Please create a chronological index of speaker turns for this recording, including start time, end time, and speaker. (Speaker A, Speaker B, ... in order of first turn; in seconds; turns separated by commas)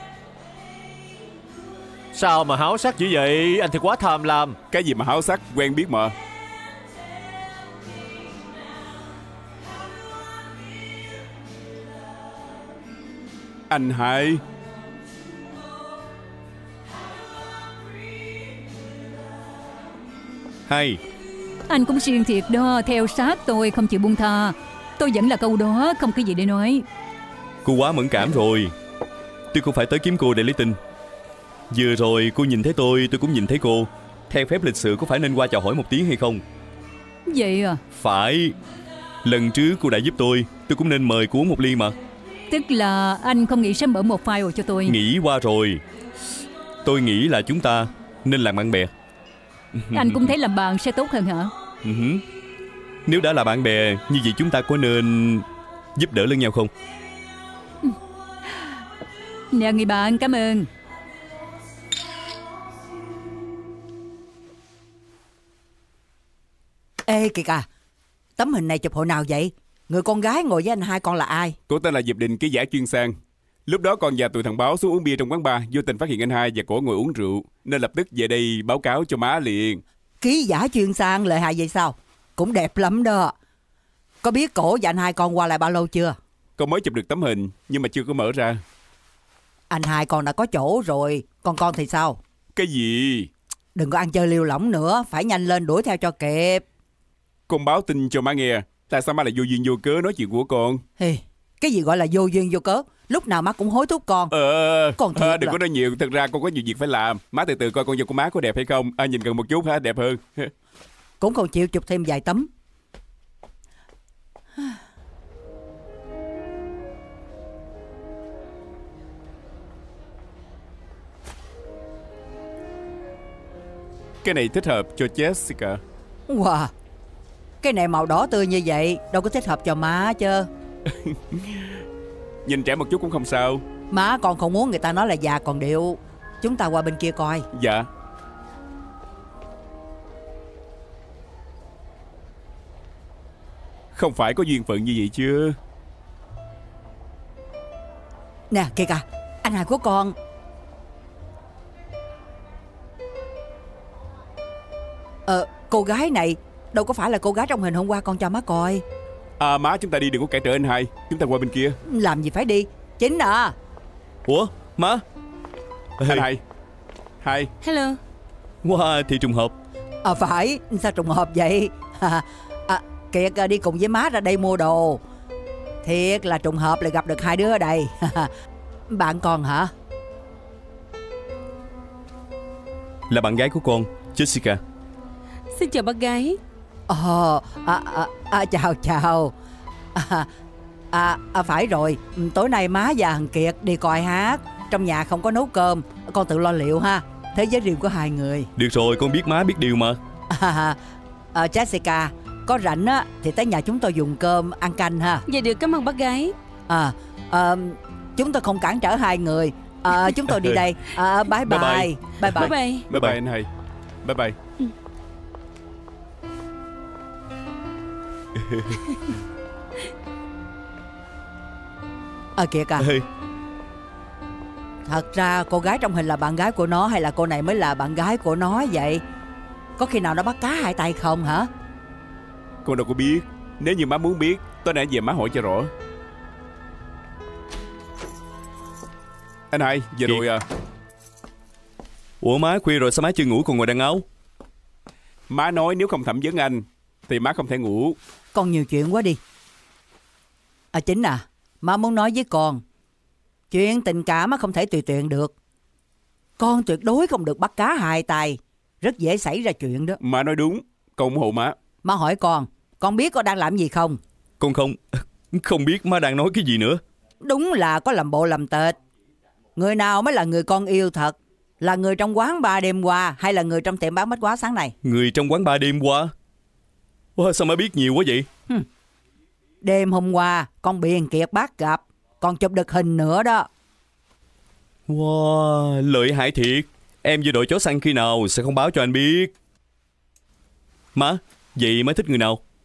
Speaker A: 2.1-4.5, Speaker B: 4.7-6.1, Speaker B: 13.7-14.4, Speaker C: 20.7-21.0, Speaker D: 21.7-26.8, Speaker C: 27.6-28.7, Speaker C: 29.5-30.8, Speaker C: 31.7-36.4, Speaker D: 37.3-37.8, Speaker C: 37.9-38.5, Speaker C: 39.2-42.0, Speaker D: 42.5-45.0, Speaker C: 44.9-45.8, Speaker C: 46.8-48.9, Speaker C: 49.8-50.3, Speaker D: 49.9-51.5, Speaker C: 51.8-52.2, Speaker C: 53.0-56.7, Speaker D: 57.8-58.8, Speaker D: 59.5-60.7, Speaker E: 67.1-67.7, Speaker E: 68.4-71.6, Speaker B: 71.7-73.1, Speaker B: 73.7-79.8, Speaker E: 80.2-83.3, Speaker E: 84.2-86.2, Speaker B: 86.6-88.6, Speaker E: 89.7-92.2, Speaker B: 92.5-93.3, Speaker E: 93.7-96.6, Speaker B: 97.5-100.8, Speaker E: 101.0-104.3, Speaker B: 104.3-110.5, Speaker E: 105.0-105.6, Speaker E: 111.2-112.5, Speaker B: 124.2-125.8, Speaker E: 126.3-126.7, Speaker E: 127.6-130.5, Speaker B: 130.9-131.8, Speaker B: 132.4-133.6, Speaker E: 133.9-137.5, Speaker B: 137.5-137.9, Speaker B: 143.9-145.6, Speaker E: 148.5-150.2, Speaker E: 155.3-158.8, Speaker B: 159.4-161.8, Speaker E: 161.8-163.5, Speaker C: 164.2-165.0, Speaker C: 166.0-166.2, Speaker B: 166.0-166.4, Speaker B: 167.2-167.5, Speaker F: 167.6-168.0, Speaker C: 168.6-169.5, Speaker E: 170.0-175.0, Speaker E: 175.8-178.3, Speaker E: 178.9-179.7, Speaker C: 183.1-184.6, Speaker F: 185.5-186.4, Speaker E: 186.9-189.3, Speaker E: 189.9-190.3, Speaker E: 190.9-198.5, Speaker C: 198.6-200.0, Speaker E: 200.3-200.8, Speaker E: 201.3-205.2, Speaker F: 205.3-206.3, Speaker E: 206.7-212.5, Speaker C: 210.3-210.6, Speaker C: 211.4-213.2, Speaker F: 212.3-212.8, Speaker B: 212.9-213.5, Speaker B: 214.0-214.3, Speaker C: 218.4-218.8, Speaker E: 222.4-222.9, Speaker C: 222.8-223.1, Speaker E: 224.8-229.0, Speaker E: 229.8-231.5, Speaker B: 232.6-235.7, Speaker B: 239.5-240.4, Speaker C: 242.2-244.0, Speaker B: 245.3-247.9, Speaker E: 248.3-249.2, Speaker E: 250.7-252.6, Speaker E: 253.5-255.3, Speaker E: 256.4-260.0, Speaker B: 260.0-261.5, Speaker E: 261.8-264.0, Speaker C: 264.4-266.8, Speaker E: 267.2-268.8, Speaker E: 269.6-274.7, Speaker C: 274.8-276.1, Speaker C: 277.1-278.3, Speaker E: 279.6-283.5, Speaker C: 284.9-289.3, Speaker C: 290.9-292.4